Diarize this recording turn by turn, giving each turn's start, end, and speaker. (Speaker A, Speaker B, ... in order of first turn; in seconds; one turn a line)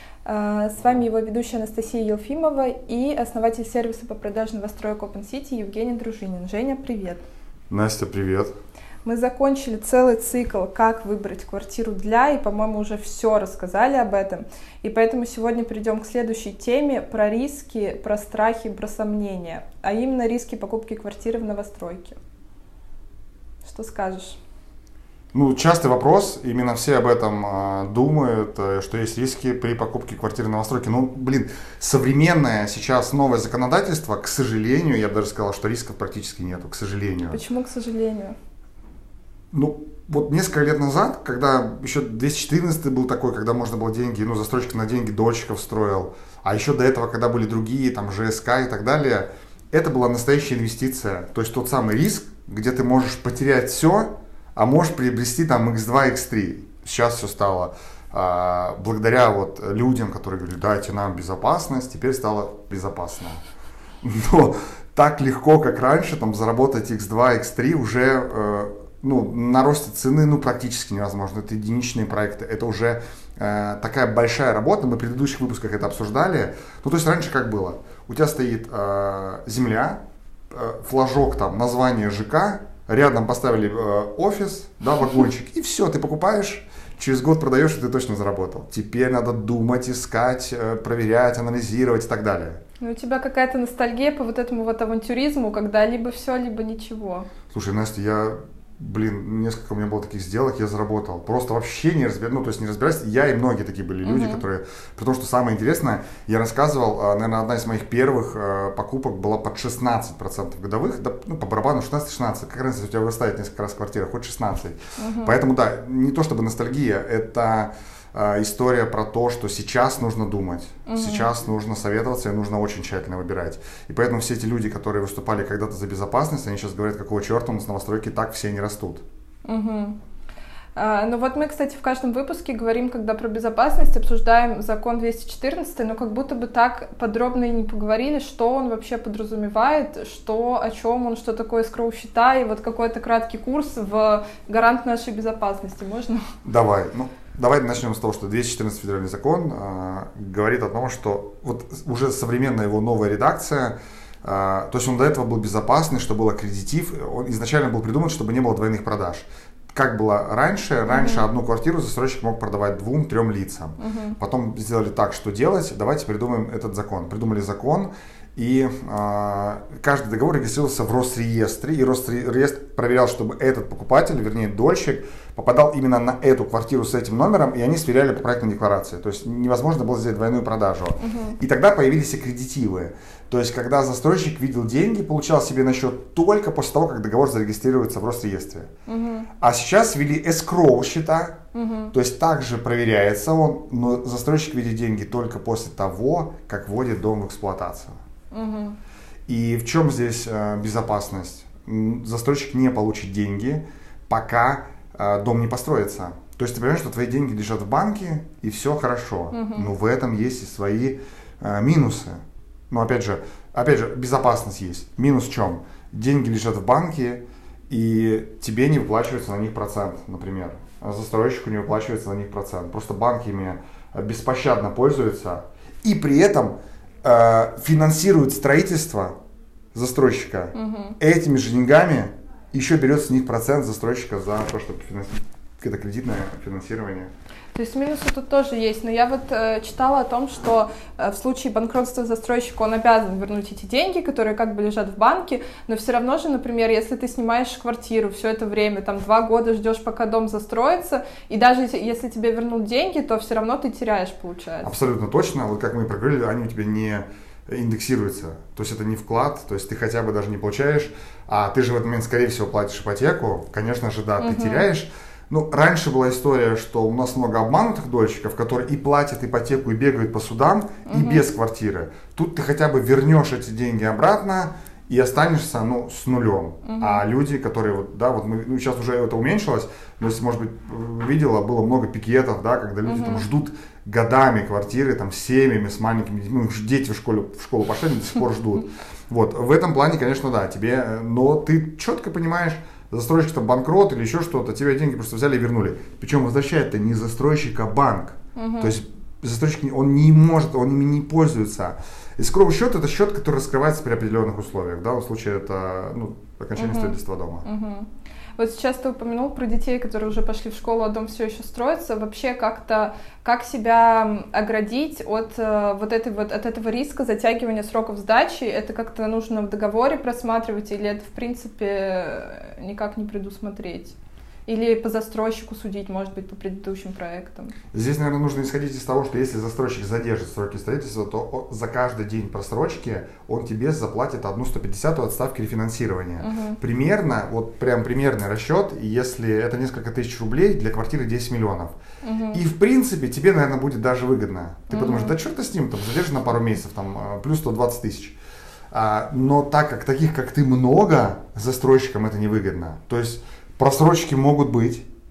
Speaker A: 0.3-7.2
Speaker B: 7.7-8.5
Speaker A: 9.0-22.2
Speaker A: 23.6-24.4
Speaker B: 25.3-37.4
Speaker A: 37.3-38.4
Speaker B: 39.5-63.4
Speaker B: 64.0-80.0
Speaker B: 80.5-92.6
Speaker A: 92.8-97.3
Speaker B: 97.5-129.0
Speaker A: 104.0-104.4
Speaker A: 115.0-115.4
Speaker A: 120.9-121.4
Speaker A: 129.4-130.0
Speaker A: 130.8-146.2
Speaker B: 146.4-188.7
Speaker A: 160.9-161.2
Speaker A: 163.8-164.2
Speaker A: 181.0-181.3
Speaker A: 188.9-189.3
Speaker B: 189.4-191.4
Speaker A: 191.5-191.9
Speaker B: 191.9-197.9
Speaker A: 198.3-198.8
Speaker B: 199.3-212.2
Speaker A: 209.3-209.7
Speaker B: 212.7-229.1
Speaker B: 229.7-237.1
Speaker A: 230.5-231.0
Speaker A: 237.5-254.7
Speaker B: 254.6-307.4
Speaker A: 264.2-264.7
Speaker A: 270.9-271.2
Speaker A: 276.6-277.0
Speaker A: 282.9-283.2
Speaker A: 298.4-298.8
Speaker A: 306.6-324.0
Speaker A: 324.5-327.5
Speaker B: 327.7-341.8
Speaker A: 336.2-336.6
Speaker A: 342.0-342.4
Speaker B: 342.3-348.2
Speaker A: 344.7-345.1
Speaker B: 348.7-354.9